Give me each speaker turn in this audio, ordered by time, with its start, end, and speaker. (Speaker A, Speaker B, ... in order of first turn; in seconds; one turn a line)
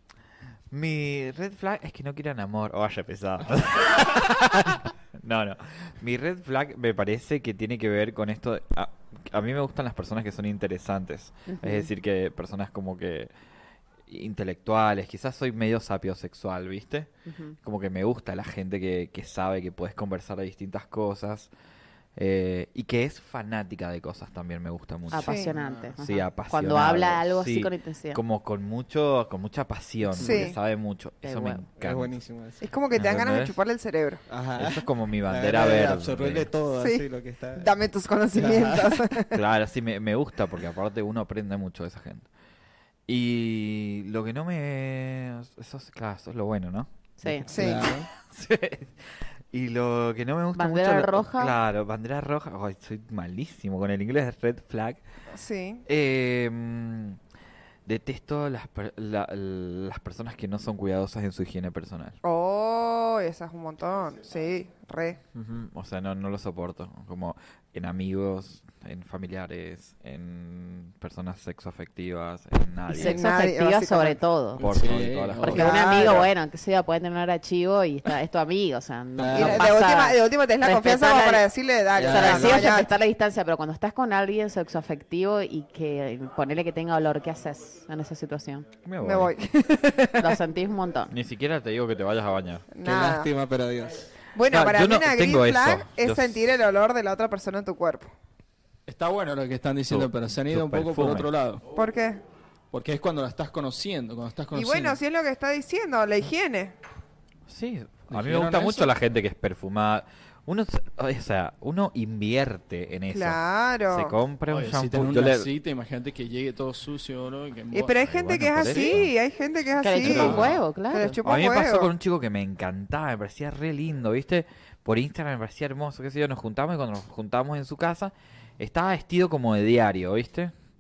Speaker A: 0.7-13.3
Speaker B: 11.5-11.9
Speaker A: 14.1-17.1
Speaker B: 17.3-17.6
Speaker A: 17.6-21.5
Speaker A: 22.2-25.5
Speaker B: 25.1-28.2
Speaker C: 25.2-25.5
Speaker D: 25.6-25.9
Speaker A: 26.0-32.1
Speaker C: 30.2-30.6
Speaker B: 31.2-31.6
Speaker D: 31.8-32.6
Speaker C: 32.6-34.2
Speaker A: 32.9-33.6
Speaker D: 34.3-37.7
Speaker A: 34.6-36.5
Speaker C: 36.8-39.4
Speaker D: 38.4-39.0
Speaker A: 39.3-42.2
Speaker A: 43.1-47.4
Speaker B: 47.2-47.5
Speaker D: 47.5-48.1
Speaker C: 47.5-47.9
Speaker A: 48.2-55.0
Speaker B: 50.5-51.5
Speaker C: 55.3-55.8
Speaker A: 55.9-57.2
Speaker A: 57.9-62.2
Speaker C: 62.2-65.2
Speaker A: 65.3-73.2
Speaker B: 72.9-74.6
Speaker C: 73.0-74.2
Speaker A: 74.6-76.3
Speaker E: 74.6-75.7
Speaker D: 74.8-75.3
Speaker B: 75.4-81.5
Speaker C: 75.5-76.2
Speaker D: 79.2-79.7
Speaker C: 79.3-82.9
Speaker D: 81.9-82.8
Speaker B: 82.0-88.7
Speaker A: 88.8-89.3
Speaker C: 89.0-90.4
Speaker B: 90.2-91.1
Speaker A: 91.1-92.7
Speaker C: 92.7-93.3
Speaker D: 92.8-94.0
Speaker C: 94.3-98.1
Speaker A: 94.5-96.4
Speaker E: 98.9-101.6
Speaker A: 99.9-101.3
Speaker C: 101.8-102.2
Speaker E: 102.7-105.0
Speaker C: 104.5-106.8
Speaker A: 107.5-115.5
Speaker E: 108.1-109.0
Speaker C: 113.1-114.2
Speaker E: 114.5-118.1
Speaker C: 117.7-121.9
Speaker A: 118.0-119.1
Speaker E: 118.6-119.0
Speaker B: 119.8-121.2
Speaker A: 120.0-120.5
Speaker E: 120.2-120.5
Speaker A: 121.2-130.5